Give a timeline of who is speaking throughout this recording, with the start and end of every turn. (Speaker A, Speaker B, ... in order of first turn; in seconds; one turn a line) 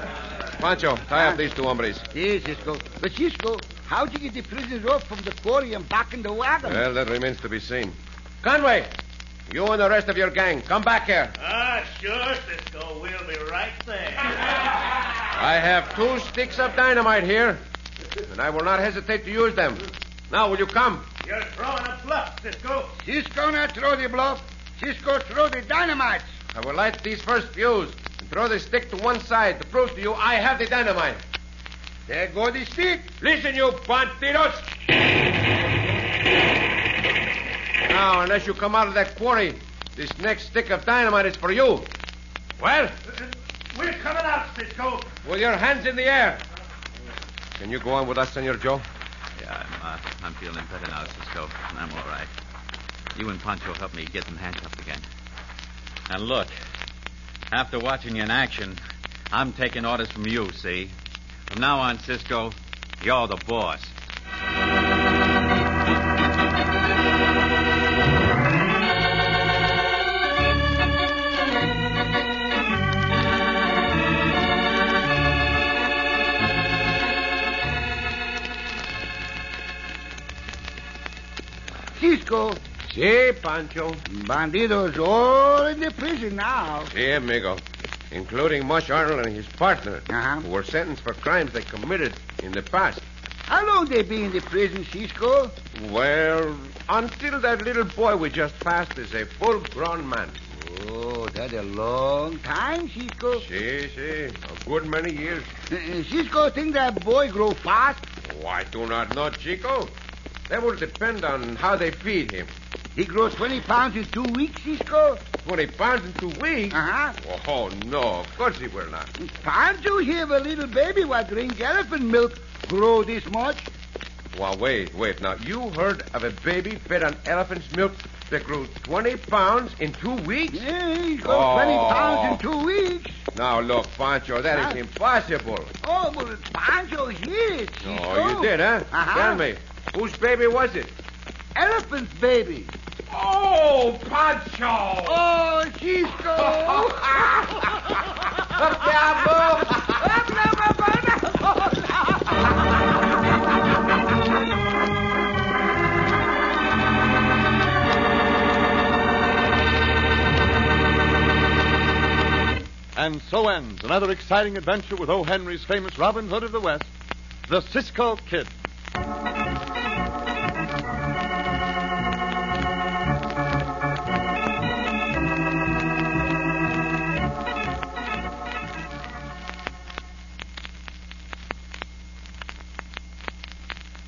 Speaker A: 0.6-2.0
Speaker B: 2.1-6.8
Speaker A: 6.6-8.9
Speaker A: 9.5-11.3
Speaker C: 11.4-14.5
Speaker A: 15.3-17.6
Speaker A: 18.2-21.1
Speaker C: 21.2-22.9
Speaker B: 23.0-26.3
Speaker A: 26.5-31.2
Speaker B: 32.1-33.1
Speaker A: 33.2-34.7
Speaker A: 37.9-41.9
Speaker A: 42.6-42.9
Speaker C: 43.1-45.1
Speaker A: 45.2-46.4
Speaker A: 47.6-48.8
Speaker D: 49.4-52.3
Speaker D: 53.1-55.0
Speaker D: 56.1-56.5
Speaker D: 57.5-60.9
Speaker D: 61.5-63.9
Speaker B: 82.0-82.6
Speaker A: 82.9-84.0
Speaker B: 84.1-86.9
Speaker A: 86.9-93.0
Speaker B: 90.1-90.4
Speaker B: 93.5-95.6
Speaker A: 95.7-100.4
Speaker B: 100.5-103.4
Speaker A: 103.4-105.5
Speaker B: 105.7-108.0
Speaker A: 108.2-109.9
Speaker A: 110.5-112.5
Speaker B: 112.9-115.2
Speaker A: 115.4-119.1
Speaker B: 116.7-117.2
Speaker B: 119.2-123.7
Speaker A: 124.3-130.6
Speaker B: 130.5-133.2
Speaker A: 131.2-132.4
Speaker A: 133.3-135.7
Speaker B: 134.5-134.8
Speaker B: 135.8-139.4
Speaker A: 137.8-140.9
Speaker B: 141.6-142.7
Speaker A: 143.1-145.2
Speaker B: 145.0-147.6
Speaker A: 146.4-150.0
Speaker B: 149.6-152.3
Speaker E: 162.9-166.9
Speaker E: 167.5-168.5